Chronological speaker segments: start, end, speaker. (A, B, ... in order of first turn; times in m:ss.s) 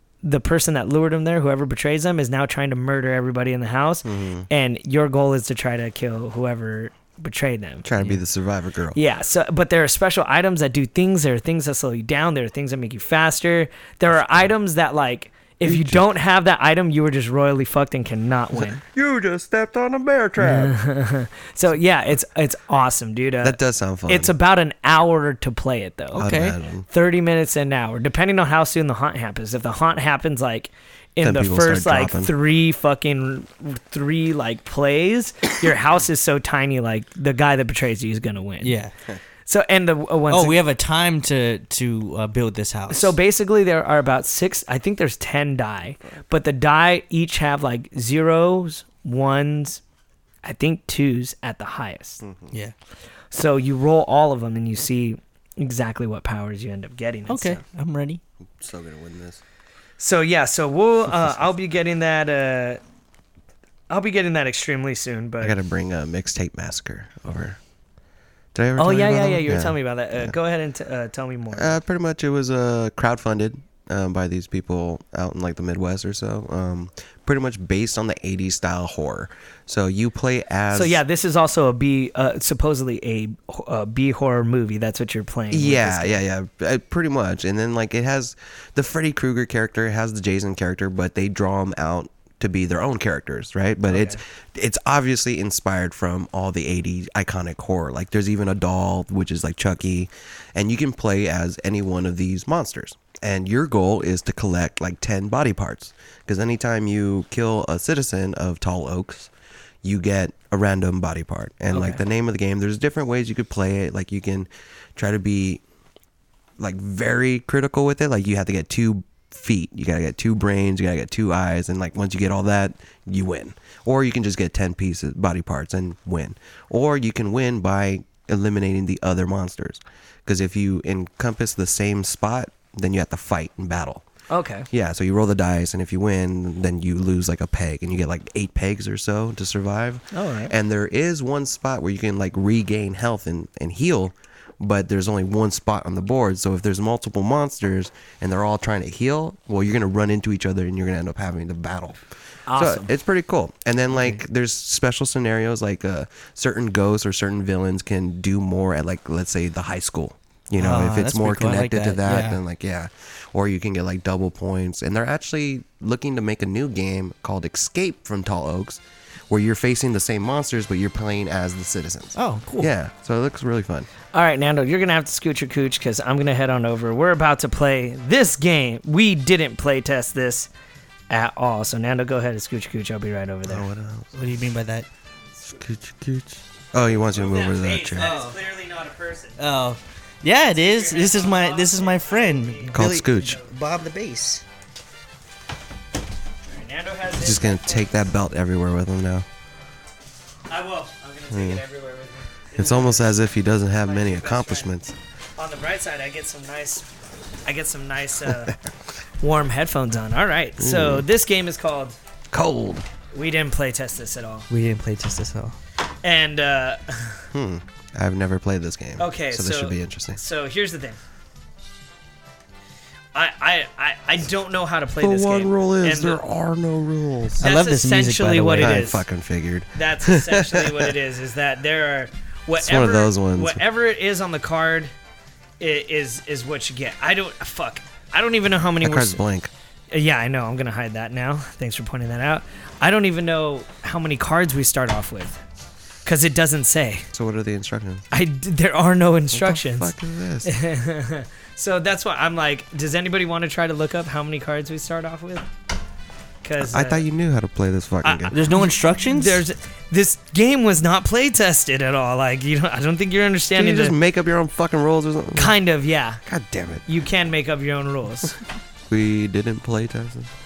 0:00.2-0:08.1 A
0:04.0-0:04.5 B
0:07.8-0:09.0 B
0:08.9-0:18.8 A
0:14.2-0:14.4 B
0:15.6-0:16.0 B
0:18.6-0:20.8 B
0:20.4-0:26.3 A
0:23.4-0:24.3 B
0:26.2-0:26.9 B
0:26.2-0:26.6 C
0:26.9-0:38.8 A
0:31.2-0:32.3 B
0:38.6-0:38.9 C
0:39.5-0:40.6 A
0:40.3-0:43.1 C
0:42.9-0:49.8 A
0:50.4-0:52.2 A
0:52.2-0:52.6 B
0:53.3-0:57.6 A
0:57.3-0:58.2 C
0:58.6-0:59.4 B
1:00.0-1:02.8 A
1:01.1-1:01.4 B
1:03.9-1:05.6 A
1:05.4-1:07.6 B
1:08.5-1:10.3 B
1:08.8-1:11.8 A
1:11.5-1:21.0 B
1:20.7-1:26.2 A
1:25.5-1:49.3 B
1:33.9-1:34.2 A
1:49.8-1:55.6 B
1:51.7-1:52.0 A
1:56.6-2:14.0 B
2:14.3-2:14.7 A
2:14.7-2:32.0 B
2:20.1-2:20.5 A
2:32.5-2:32.9 A
2:32.6-2:53.9 B
2:40.6-2:42.4 C
2:52.2-2:52.7 C
2:54.1-3:00.5 A
3:01.1-3:03.7 A
3:03.5-3:04.4 B
3:04.2-3:04.9 C
3:05.5-3:08.1 B
3:07.0-3:09.4 A
3:08.0-3:08.4 C
3:09.4-3:14.4 C
3:10.5-3:13.5 A
3:12.7-3:13.4 B
3:16.5-3:18.0 A
3:17.2-3:19.3 B
3:20.5-3:23.2 A
3:21.3-3:21.6 B
3:22.6-3:25.0 B
3:23.8-3:24.7 A
3:25.4-3:26.9 A
3:27.4-3:28.6 A
3:29.2-3:32.0 A
3:30.6-3:31.1 B
3:32.3-3:32.9 B
3:33.1-3:34.5 A
3:34.5-3:35.6 C
3:36.0-3:37.2 A
3:37.3-3:40.2 B
3:39.0-3:41.0 A
3:43.1-3:46.2 A
3:45.0-3:47.4 B
3:47.4-3:49.0 C
3:47.4-3:49.0 A
3:48.6-3:50.9 B
3:49.8-3:54.9 A
3:52.6-3:53.6 B
3:55.6-3:59.2 A
3:58.8-3:59.5 B
3:59.9-4:05.4 A
4:06.0-4:07.1 A
4:07.1-4:08.1 B
4:08.1-4:09.9 A
4:09.3-4:10.5 B
4:10.4-4:15.5 A
4:16.4-4:17.1 A
4:16.6-4:18.4 B
4:18.0-4:24.0 A
4:18.3-4:19.4 C
4:23.6-4:25.6 B
4:25.4-4:26.2 A
4:26.3-4:26.9 B
4:26.9-4:28.4 A
4:28.9-4:30.3 B